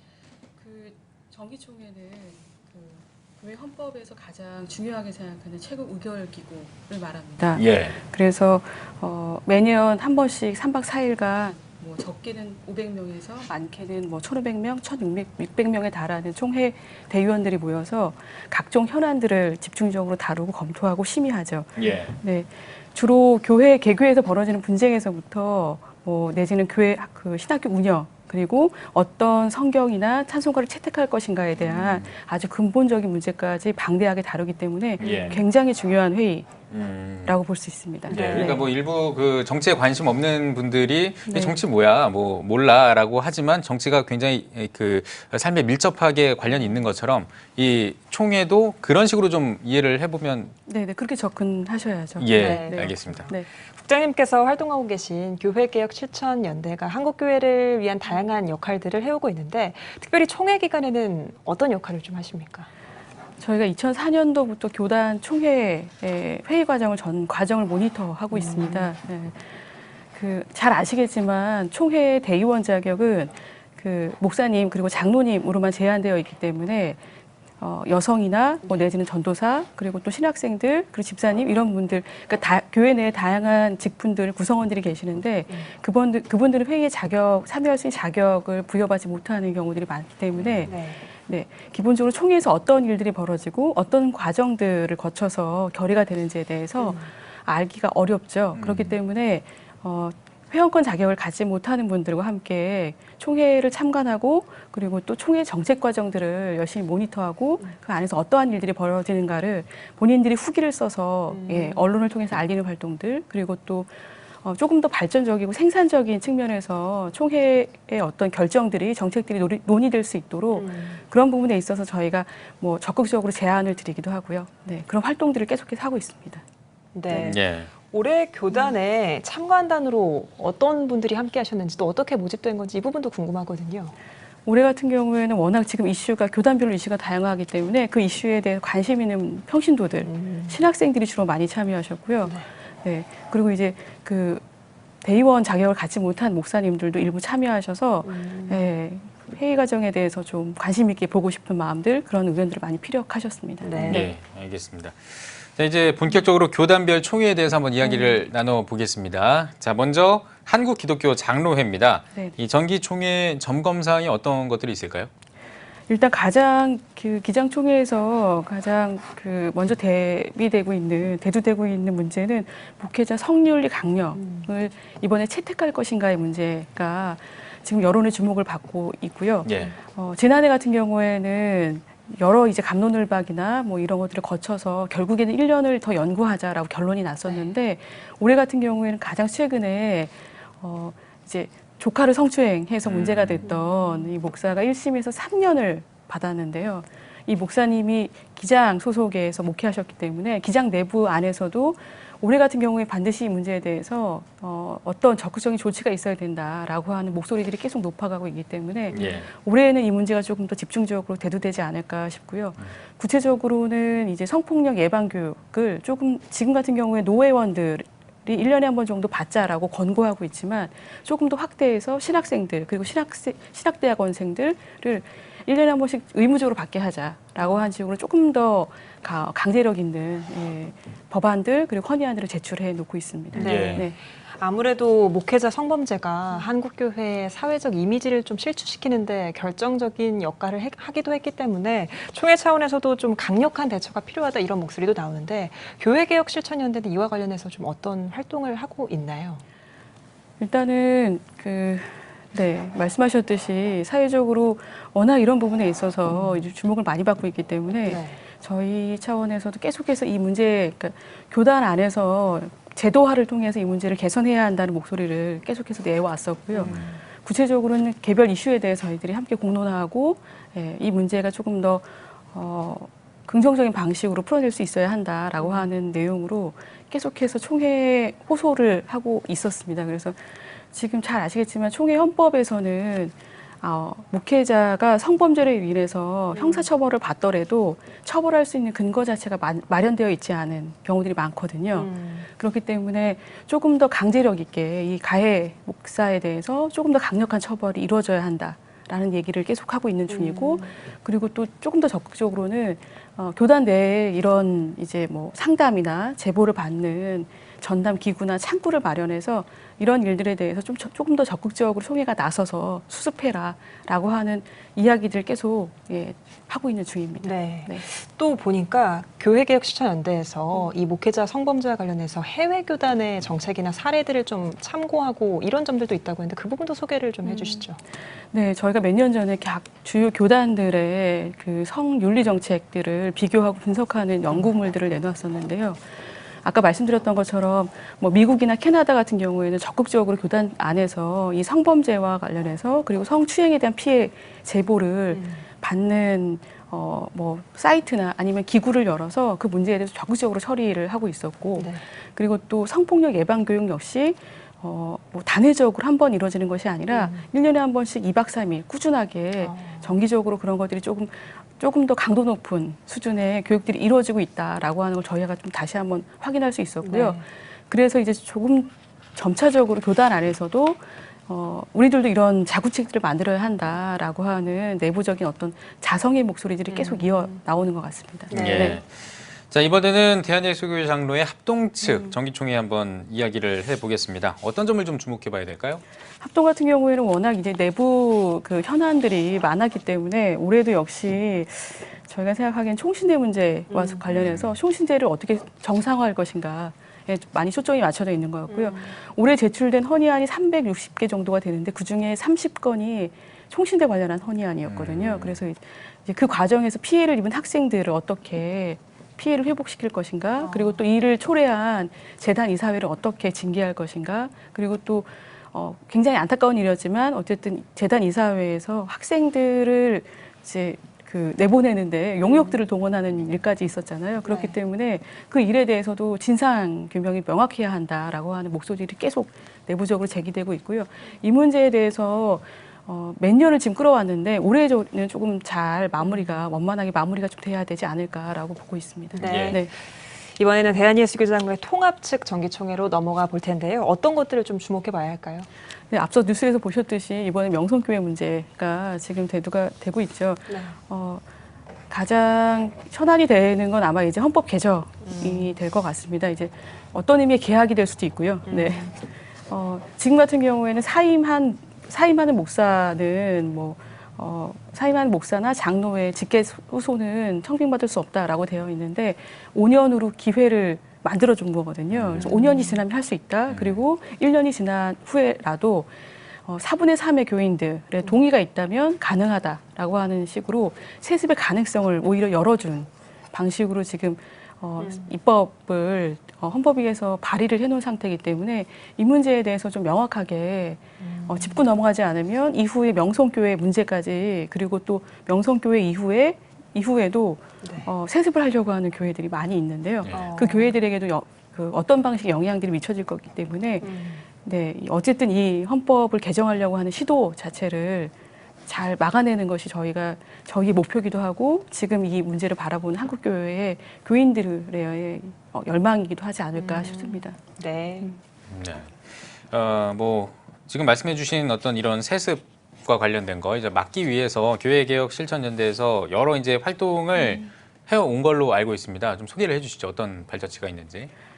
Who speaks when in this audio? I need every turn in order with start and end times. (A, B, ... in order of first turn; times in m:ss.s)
0:00.6-0:36.5 A
0:07.5-0:08.0 B
0:21.8-0:22.1 B
0:31.8-0:32.1 B
0:35.0-0:35.4 B
0:35.0-0:35.4 C
0:36.7-0:37.4 B
0:37.3-0:38.7 A
0:38.1-0:38.6 C
0:38.1-0:50.5 B
0:41.3-0:41.6 A
0:50.7-0:53.5 A
0:52.2-0:53.3 B
0:52.3-1:02.7 C
1:03.4-1:09.4 A
1:08.3-1:08.9 C
1:10.2-1:17.0 A
1:17.6-1:53.9 A
1:30.4-1:30.7 B
1:30.7-1:31.0 C
1:36.8-1:37.1 C
1:38.5-1:39.0 B
1:51.3-1:51.9 C
1:54.4-2:06.4 A
2:00.5-2:01.0 C
2:06.9-2:13.9 C
2:07.1-2:07.7 B
2:14.5-2:24.4 A
2:20.0-2:20.6 C
2:25.0-2:34.1 A
2:28.0-2:28.7 C
2:33.6-2:34.1 C
2:33.8-2:45.1 B
2:37.9-2:38.2 C
2:45.9-3:53.9 A
2:54.2-2:54.5 C
2:59.4-2:59.7 B
3:12.8-3:13.5 B
3:13.4-3:14.1 C
3:28.9-3:29.3 B
3:53.3-3:53.9 B
3:53.4-4:09.4 C
4:10.4-4:40.2 A
4:17.8-4:18.2 C
4:26.5-4:27.0 C
4:35.4-4:35.7 C
4:40.7-5:17.8 A
4:46.3-4:46.7 C
4:51.7-4:52.3 C
5:00.1-5:00.7 C
5:17.2-5:27.8 C
5:27.2-5:27.7 A
5:28.3-5:35.8 A
5:36.4-6:18.8 A
5:45.1-5:45.4 C
5:51.6-5:51.8 C
5:56.9-5:57.3 C
5:59.4-6:00.0 C
6:06.8-6:07.2 C
6:16.7-6:17.4 C
6:18.3-6:18.8 C
6:18.3-6:25.8 B
6:21.8-6:22.1 A
6:26.2-7:19.7 A
6:33.7-6:34.0 C
6:34.1-6:34.5 B
6:38.5-6:38.9 C
6:44.7-6:45.4 B
6:50.4-6:50.8 C
7:02.2-7:02.6 C
7:04.2-7:04.6 C
7:16.0-7:16.4 C
7:19.2-7:19.7 C
7:19.2-7:19.6 B
7:20.4-7:25.5 C
7:25.9-7:31.2 A
7:30.5-7:30.8 C
7:31.9-7:39.0 A
7:35.0-7:35.5 C
7:38.5-7:38.9 C
7:39.5-7:55.9 A
7:51.9-7:52.3 B
7:52.2-7:52.8 C
7:53.5-7:53.8 B
7:56.5-8:28.1 A
8:04.8-8:05.1 C
8:11.0-8:11.6 C
8:17.6-8:17.9 C
8:20.1-8:20.7 C
8:23.8-8:24.2 C
8:28.7-8:37.4 A
8:36.6-8:38.1 C
8:38.5-8:51.1 B